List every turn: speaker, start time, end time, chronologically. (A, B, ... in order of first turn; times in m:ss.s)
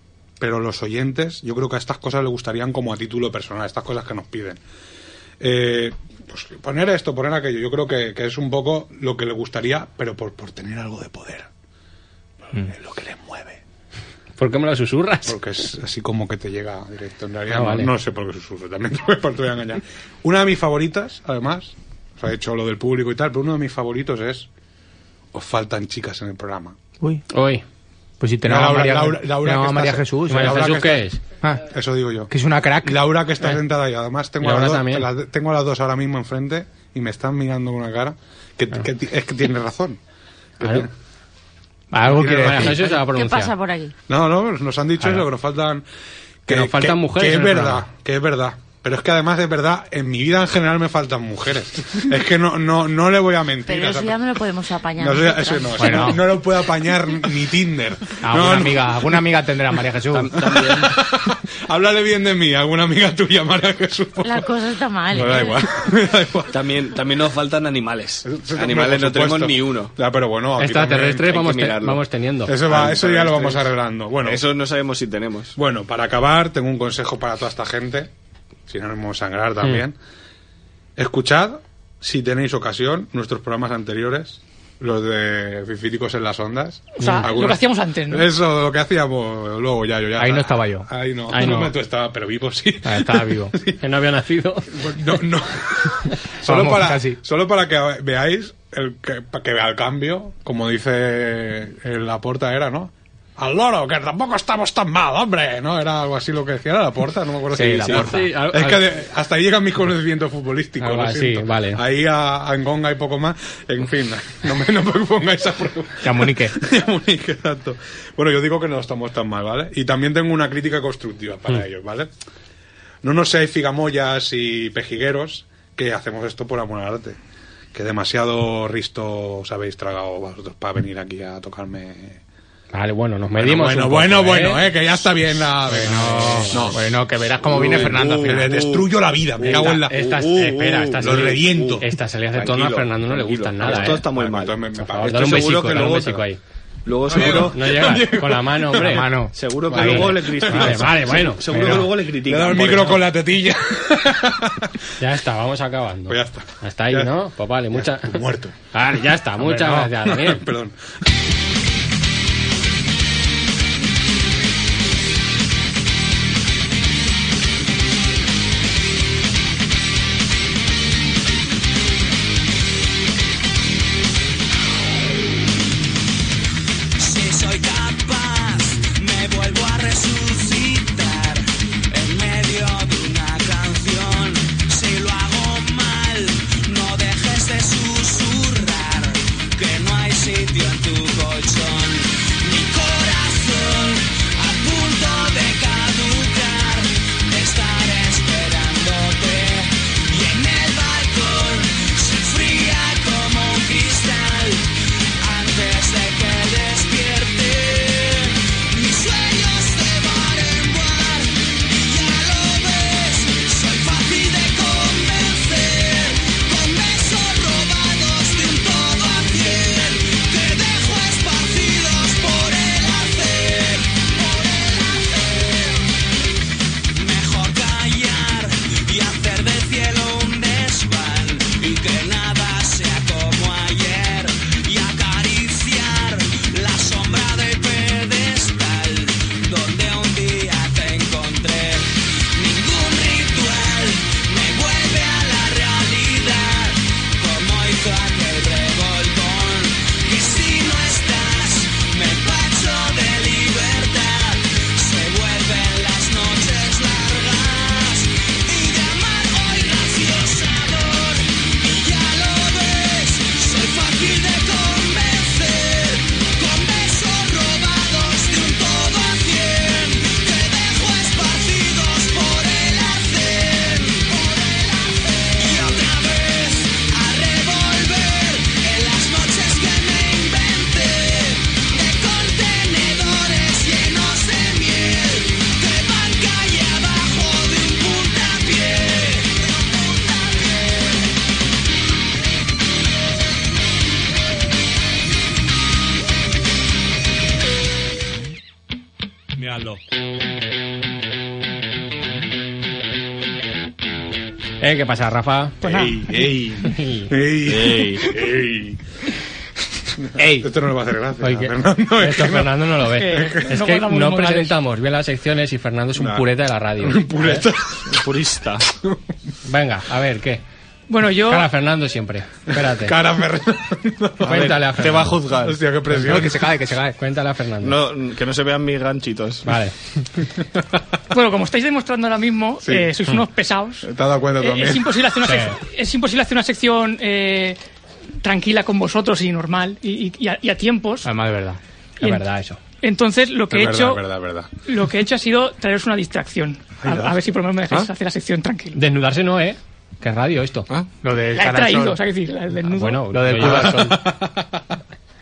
0:00.4-0:04.6 A
0:05.4-0:11.5 A
0:12.5-0:13.6 A
0:14.4-0:15.4 B
0:15.2-0:24.5 A
0:17.5-0:17.9 B
0:25.3-0:26.8 A
0:27.0-0:27.2 C
0:27.3-0:27.6 B
0:28.2-0:30.6 C
0:28.4-0:31.0 A
0:30.3-0:31.2 B
0:31.4-0:31.7 C
0:31.7-0:32.3 A
0:32.3-0:33.0 C
0:32.8-0:40.0 A
0:34.4-0:35.1 B
0:40.6-0:40.9 B
0:40.6-0:40.9 A
0:41.9-0:42.9 C
0:42.0-0:42.8 A
0:42.3-0:43.5 B
0:43.1-0:43.9 D
0:44.1-0:45.8 A
0:46.5-0:54.2 A
0:46.5-0:47.8 B
0:53.6-0:56.1 D
0:55.0-0:59.0 A
0:55.8-0:56.2 C
0:58.2-1:00.5 C
1:00.1-1:01.0 E
1:00.4-1:04.5 A
1:04.2-1:05.7 D
1:05.1-1:06.5 A
1:06.5-1:09.9 E
1:08.2-1:11.2 A
1:10.6-1:12.5 B
1:11.2-1:12.0 E
1:12.5-1:14.4 A
1:12.6-1:13.7 E
1:14.2-1:15.6 E
1:15.6-1:18.1 A
1:18.7-1:20.0 A
1:21.0-1:33.8 A
1:27.0-1:28.3 F
1:27.0-1:27.2 B
1:30.2-1:30.9 C
1:31.3-1:31.7 B
1:32.8-1:33.5 C
1:33.8-1:34.8 B
1:34.7-2:02.1 A
1:36.4-1:37.2 C
1:47.5-1:48.2 C
1:47.8-1:48.8 B
1:50.8-1:51.8 B
1:56.0-1:56.6 C
2:03.0-2:07.2 A
2:07.7-2:12.2 A
2:12.7-2:14.7 B
2:13.4-2:16.8 A
2:15.7-2:16.8 B
2:15.7-2:18.5 C
2:17.5-2:26.2 E
2:17.5-2:19.9 A
2:19.5-2:24.1 B
2:21.0-2:21.8 A
2:23.7-2:25.9 A
2:24.9-2:26.4 B
2:26.8-2:28.2 E
2:27.1-2:29.0 A
2:27.1-2:29.1 B
2:28.8-2:30.1 C
2:29.3-2:33.0 E
2:29.7-2:31.8 B
2:29.7-2:30.9 A
2:31.5-2:34.7 A
2:35.0-2:40.4 B
2:36.1-2:37.1 A
2:37.7-2:38.6 A
2:39.4-2:39.8 C
2:39.8-2:40.8 A
2:57.0-3:45.9 G
3:46.9-4:50.6 G
4:59.4-4:59.8 A
5:04.6-5:05.6 B
5:05.6-5:06.0 F
5:05.7-5:08.8 A
5:06.0-5:06.6 E
5:06.6-5:07.1 B
5:07.4-5:08.1 E
5:10.0-5:13.5 A
5:10.2-5:10.5 C
5:11.2-5:17.4 B
5:13.0-5:14.5 F
5:16.0-5:16.3 A
5:16.8-5:18.0 A
5:17.9-5:18.6 E
5:18.7-5:19.0 A
5:19.4-5:20.4 B
5:20.9-5:21.5 F
5:21.2-5:22.9 B
5:22.6-5:24.5 A
5:24.2-5:25.6 E
5:24.2-5:25.2 B
5:25.4-5:26.5 A
5:25.9-5:27.0 C
5:27.0-5:27.8 B
5:27.6-5:29.6 E
5:29.4-5:29.7 B
5:31.1-5:33.9 F
5:33.8-5:34.9 A
5:34.4-5:37.6 F
5:35.2-5:35.6 B
5:38.2-5:41.1 F
5:41.0-5:41.6 C
5:42.0-5:42.6 B
5:42.8-5:44.0 F
5:43.5-5:44.5 A
5:44.6-5:48.8 F
5:46.8-5:47.1 A
5:48.7-5:50.7 B
5:51.0-5:52.0 C
5:51.3-5:53.2 F
5:52.7-5:54.0 B
5:53.1-5:54.0 C
5:53.4-5:54.5 A